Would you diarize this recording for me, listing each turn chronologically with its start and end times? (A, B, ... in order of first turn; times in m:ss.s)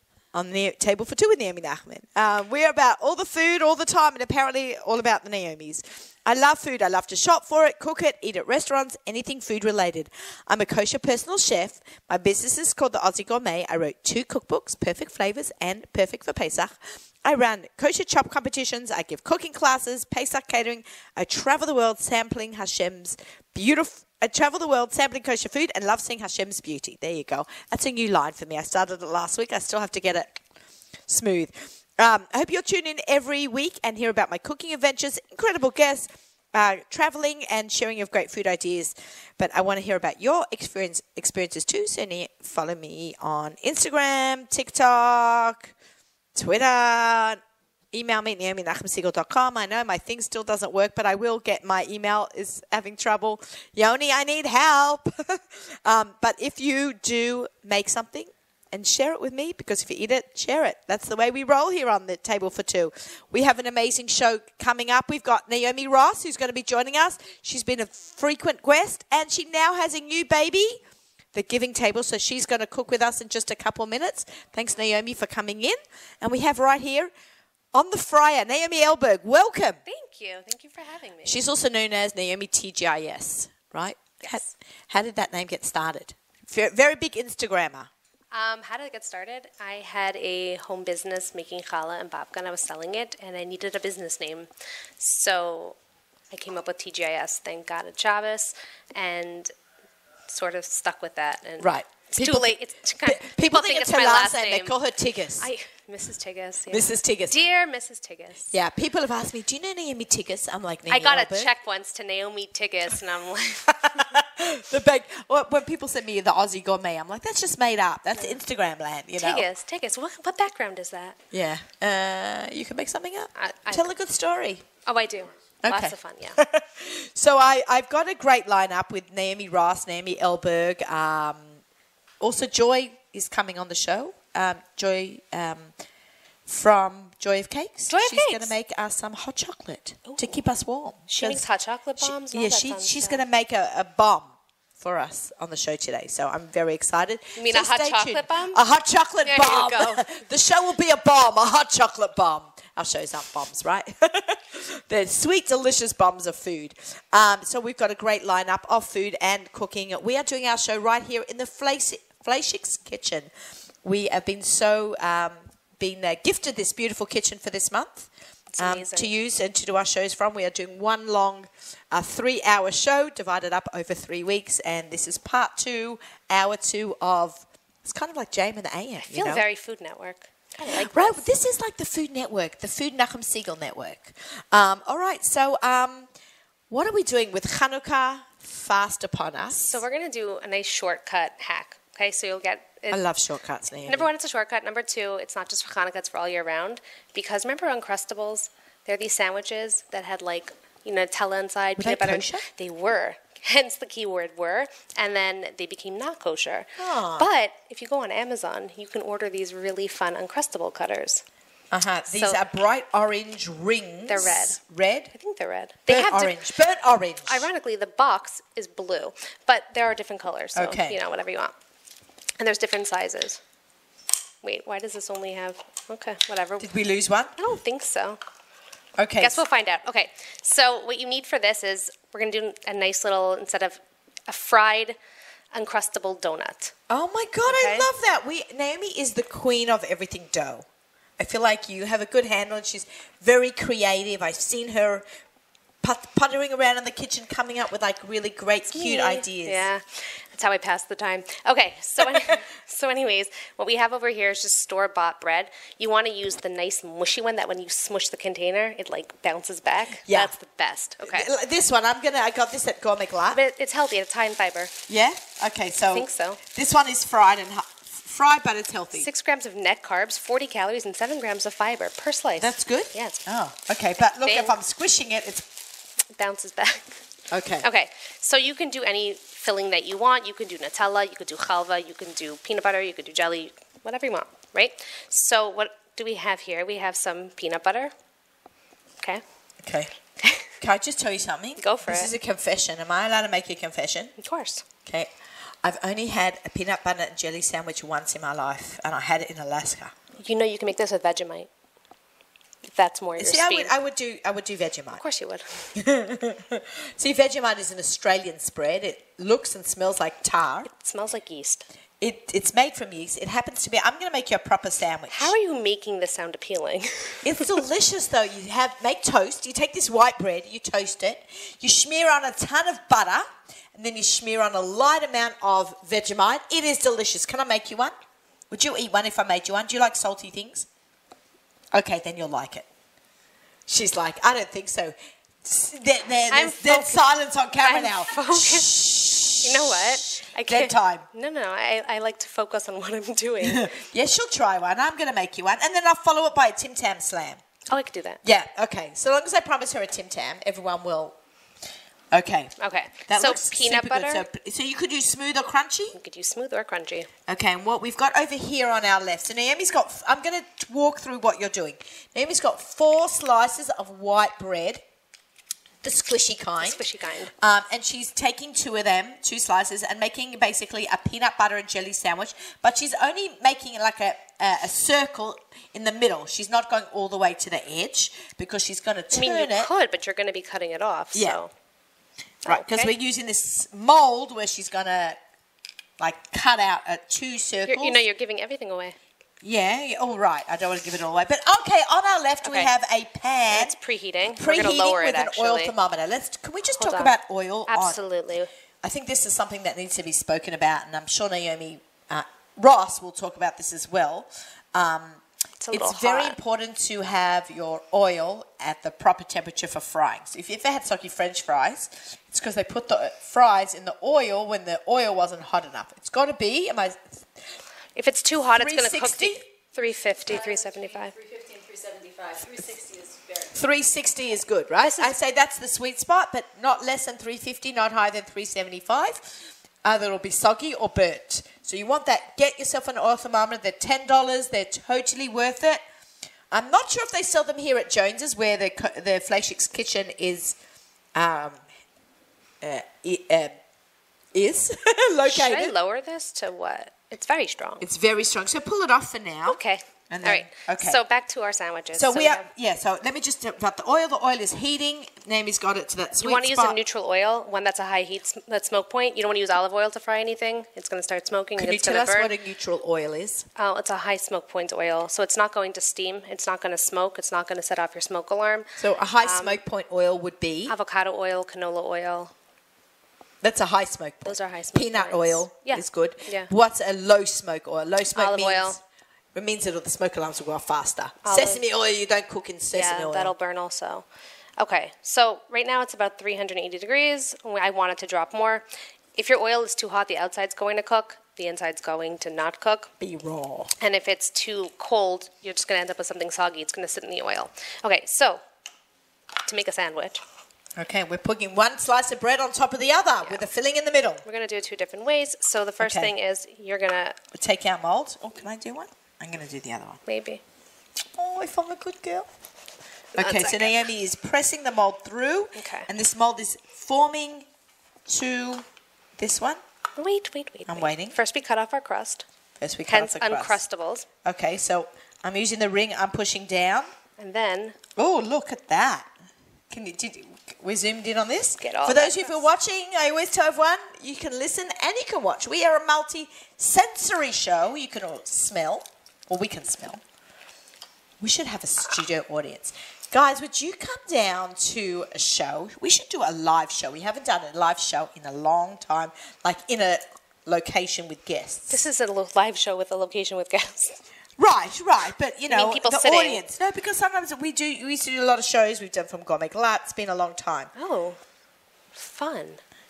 0:00.3-0:30.4 A
0:31.1-0:45.7 A
0:46.4-0:47.4 A
0:47.9-1:10.8 A
1:11.3-1:17.1 A
1:17.7-1:19.8 A
1:19.9-1:21.4 B
1:21.2-1:27.9 A
1:24.2-1:24.5 B
1:28.3-1:35.8 B
1:36.3-1:39.5 B
1:40.3-1:44.8 B
1:41.6-1:45.5 A
1:45.4-1:48.5 B
1:46.7-1:47.4 A
1:48.5-1:51.5 A
1:50.9-1:54.1 B
1:53.7-1:59.5 A
1:59.2-2:01.2 B
2:01.3-2:04.6 A
2:03.4-2:03.9 B
2:04.9-2:06.4 B
2:05.6-2:11.6 A
2:12.2-2:15.7 A
2:16.5-2:21.4 A
2:17.9-2:18.5 B
2:20.1-2:20.4 B
2:21.1-2:23.2 B
2:22.0-2:43.3 A
2:27.4-2:28.6 B
2:29.2-2:30.1 B
2:43.8-2:59.4 A
2:48.5-2:49.1 B
2:59.0-3:01.3 B
3:00.7-3:06.1 A
3:06.7-3:09.8 A
3:09.7-3:13.0 B
3:12.9-3:14.1 A
3:13.9-3:31.2 B
3:21.8-3:22.5 A
3:26.8-3:27.3 A
3:31.7-3:35.1 A
3:32.1-3:32.4 B
3:34.1-3:34.6 B
3:35.1-3:36.4 B
3:35.9-3:37.5 A
3:37.3-3:41.5 B
3:40.5-3:41.0 A
3:42.4-3:43.4 B
3:44.4-3:46.7 B
3:46.6-3:47.3 A
3:47.4-3:48.2 B
3:49.0-3:49.4 A
3:49.2-3:55.0 B
3:55.5-3:56.7 B
3:56.9-4:00.7 A
3:57.4-3:57.9 B
4:01.2-4:05.0 A
4:05.8-4:09.7 A
4:08.7-4:21.3 B
4:12.0-4:12.4 A
4:20.0-4:20.3 A
4:21.0-4:23.4 A
4:23.3-4:24.8 B
4:24.9-4:29.1 A
4:25.9-4:26.4 B
4:28.9-4:33.2 B
4:32.4-4:35.5 A
4:34.1-4:34.6 B
4:36.2-4:37.0 B
4:37.3-4:37.7 A
4:37.6-4:47.9 B
4:49.6-4:49.9 A
4:50.2-4:50.5 B
4:50.6-4:54.1 A
4:51.6-4:52.1 B
4:54.2-4:54.6 B
4:54.9-4:55.1 A
4:55.6-4:59.9 A
5:00.2-5:01.5 B
5:02.6-5:03.7 B
5:03.2-5:05.0 A
5:05.0-5:05.7 B
5:05.8-5:10.7 A
5:10.7-5:11.7 B
5:12.0-5:15.4 A
5:15.1-5:17.6 B
5:17.2-5:27.9 A
5:28.5-5:30.7 A
5:31.7-5:32.7 A
5:33.7-5:41.1 A
5:36.3-5:37.1 B
5:37.6-5:38.7 B
5:39.4-5:43.7 B
5:43.4-5:47.4 A
5:47.7-5:48.2 B
5:48.2-5:51.2 A
5:52.1-5:52.5 A
5:52.6-5:54.3 B
5:53.1-5:56.0 A
5:56.0-5:57.1 B
5:57.3-6:04.8 A
6:05.8-6:06.8 A
6:06.6-6:07.3 B
6:07.4-6:19.7 A
6:19.1-6:21.5 B
6:22.4-6:22.9 B
6:22.5-6:25.2 A
6:26.0-6:28.0 A
6:27.7-6:29.0 B
6:29.4-6:33.8 A
6:32.4-6:32.7 B
6:33.5-6:35.7 B
6:34.3-6:38.0 A
6:36.8-6:37.2 B
6:37.7-6:38.5 B
6:38.8-6:57.3 A
6:45.6-6:46.4 B
6:58.0-7:01.1 B
6:58.6-6:59.4 A
7:00.2-7:03.5 C
7:03.5-7:15.8 A
7:04.8-7:05.2 B
7:16.5-7:20.6 A
7:21.2-7:21.6 A
7:22.6-7:23.6 A
7:24.3-7:25.8 A
7:25.2-7:27.9 B
7:27.8-7:29.6 A
7:29.5-7:32.5 B
7:30.1-7:31.0 A
7:32.0-7:36.8 A
7:36.2-7:42.3 B
7:41.6-7:43.5 A
7:43.6-7:49.6 B
7:48.8-7:50.7 A
7:50.7-7:52.3 B
7:53.4-7:58.8 A
7:54.2-7:56.5 B
7:58.2-7:58.8 B
7:59.3-8:03.3 A
8:01.2-8:01.6 B
8:02.7-8:04.1 B
8:04.6-8:08.6 B
8:09.2-8:12.9 B
8:13.0-8:13.7 A
8:13.8-8:18.4 B
8:19.5-8:20.2 B
8:20.8-8:24.2 A
8:24.2-8:27.2 B
8:25.8-8:26.1 A
8:27.3-8:30.0 A
8:30.1-8:30.4 B
8:31.2-8:32.3 A
8:33.2-8:37.5 A
8:33.2-8:33.9 B
8:35.6-8:35.9 B
8:38.1-8:38.6 A
8:39.2-8:39.6 A
8:40.0-8:42.2 B
8:40.7-8:41.2 A
8:42.6-8:43.6 A
8:42.9-8:44.1 B
8:44.2-8:46.9 A
8:47.2-8:47.8 B
8:48.0-8:49.1 A
8:49.7-9:00.0 A
8:51.6-8:52.4 B
9:01.2-9:11.8 A
9:11.7-9:14.0 B
9:14.4-9:20.7 A
9:15.5-9:16.4 B
9:20.8-9:21.2 B
9:22.0-9:22.6 B